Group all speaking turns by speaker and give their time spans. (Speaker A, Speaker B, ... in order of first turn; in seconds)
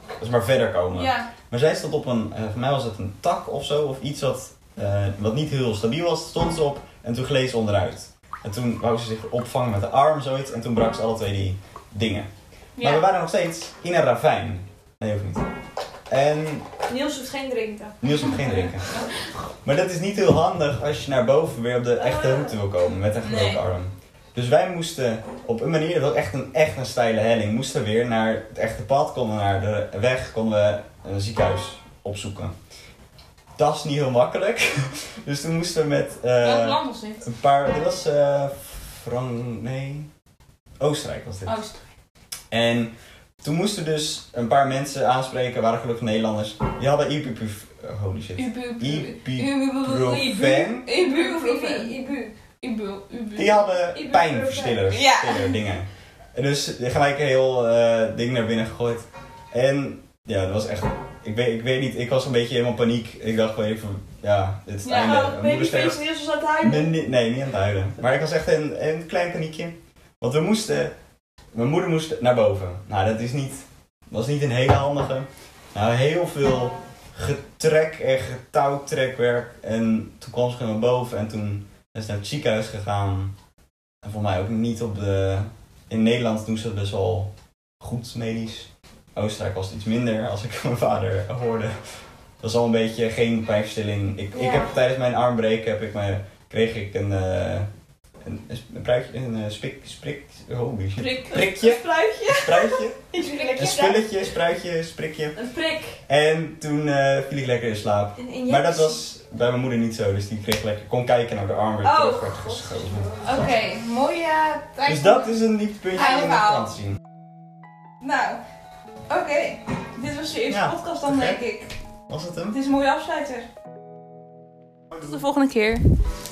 Speaker A: 0.2-15.5, 16.1-16.7, 18.0-19.0, 19.6-32.5, 33.6-40.1, 40.8-41.6, 42.5-50.9, 53.4-66.0, 66.6-70.9, 71.5-83.3, 84.0-97.7, 98.2-103.0, 103.6-105.3, 106.1-113.5, 114.9-117.0, 120.5-121.4, 122.1-122.6
Speaker B: 0.9-1.3, 12.8-13.1, 18.4-19.0, 23.2-23.6, 36.4-37.2, 41.5-41.8, 48.4-51.9, 52.6-53.6, 54.9-55.6, 64.9-65.2, 101.0-101.5, 103.2-103.9, 113.2-115.3, 116.0-116.7, 118.0-118.4, 119.1-121.8, 122.5-123.5, 125.0-125.9
Speaker C: 16.9-18.4, 22.0-22.6, 49.9-52.4, 53.9-54.9, 64.8-66.9, 94.3-94.7, 101.3-104.1, 105.3-106.0, 108.2-109.0, 111.8-113.5